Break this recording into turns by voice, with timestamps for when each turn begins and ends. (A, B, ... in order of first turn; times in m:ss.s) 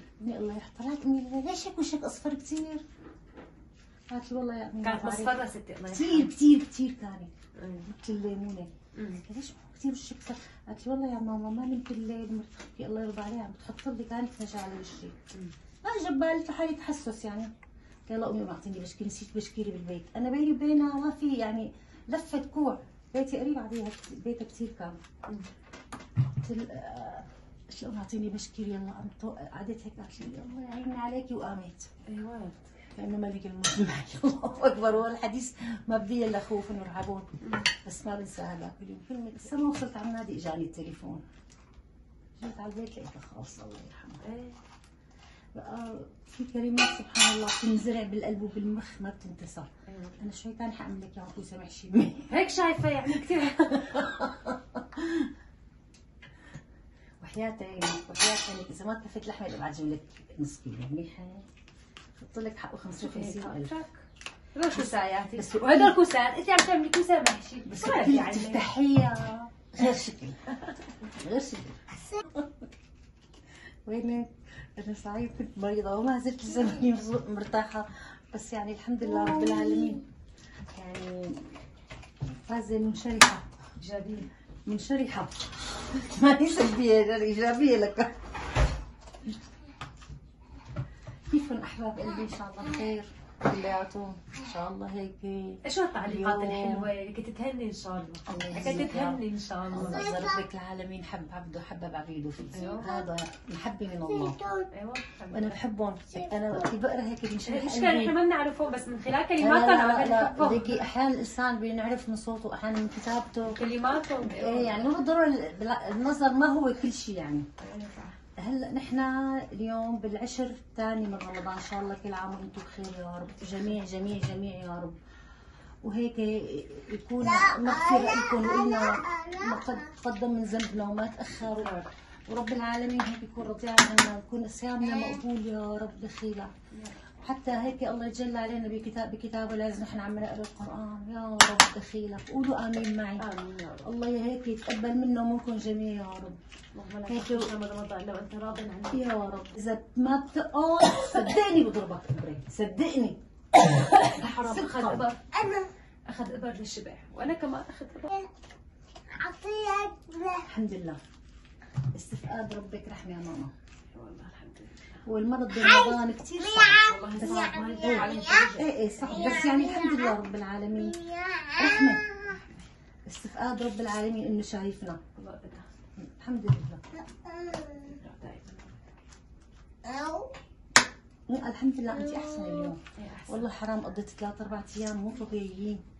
0:00.2-0:02.8 A
0:04.1-0:05.4 A
0:04.8-0:06.3 B
0:05.9-0:07.3 A
0:07.6-0:07.9 B
0:07.9-0:15.2 A
0:08.9-0:09.2 B
0:15.8-0:17.5 A
0:18.1-0:25.0 A
0:26.4-0:31.9 A
0:32.0-0:32.6 B
0:32.9-0:41.2 A
0:37.4-0:37.7 B
0:42.4-0:44.2 A
0:44.2-0:44.6 B
0:45.5-0:52.3 A
0:49.8-0:50.2 B
0:52.3-0:54.0 B
0:53.7-0:55.3 A
0:57.2-1:01.4 A
1:02.2-1:03.7 A
1:03.0-1:04.0 B
1:04.5-1:08.7 B
1:04.7-1:06.0 A
1:07.6-1:10.4 A
1:11.0-1:12.7 A
1:13.9-1:20.0 A
1:19.2-1:19.9 C
1:20.7-1:21.6 A
1:22.5-1:23.4 A
1:23.8-1:24.3 B
1:24.6-1:28.1 A
1:31.3-1:36.9 A
1:35.6-1:40.0 B
1:38.3-1:44.4 A
1:39.7-1:40.4 C
1:42.5-1:42.9 B
1:42.8-1:43.0 C
1:44.1-1:44.7 C
1:44.7-1:45.6 B
1:45.3-1:48.1 A
1:47.5-1:50.8 B
1:49.4-1:53.6 A
1:53.5-1:54.9 B
1:54.2-1:57.5 A
1:57.6-1:58.2 B
1:58.4-2:05.0 A
2:05.8-2:16.5 A
2:07.2-2:09.8 C
2:17.2-2:23.2 A
2:23.2-2:23.9 B
2:23.8-2:26.4 A
2:26.8-2:29.0 B
2:27.1-2:27.5 A
2:28.9-2:35.1 A
2:34.1-2:35.2 B
2:35.3-2:35.7 C
2:36.1-2:38.1 B
2:39.1-2:40.5 C
2:40.4-2:41.0 A
2:41.9-2:43.5 A
2:43.9-2:45.0 B
2:45.0-2:51.0 A
2:45.6-2:48.5 C
2:46.8-2:49.4 B
2:49.0-2:50.2 C
2:50.8-2:52.4 C
2:51.6-2:52.0 A
2:52.3-2:52.6 B
2:53.0-2:55.0 A
2:55.2-2:55.7 B
2:56.0-2:56.8 A
2:57.0-2:58.0 C
2:57.9-2:58.6 B
2:59.8-3:00.4 C
3:01.3-3:05.8 A
3:02.0-3:02.7 C
3:02.9-3:03.5 B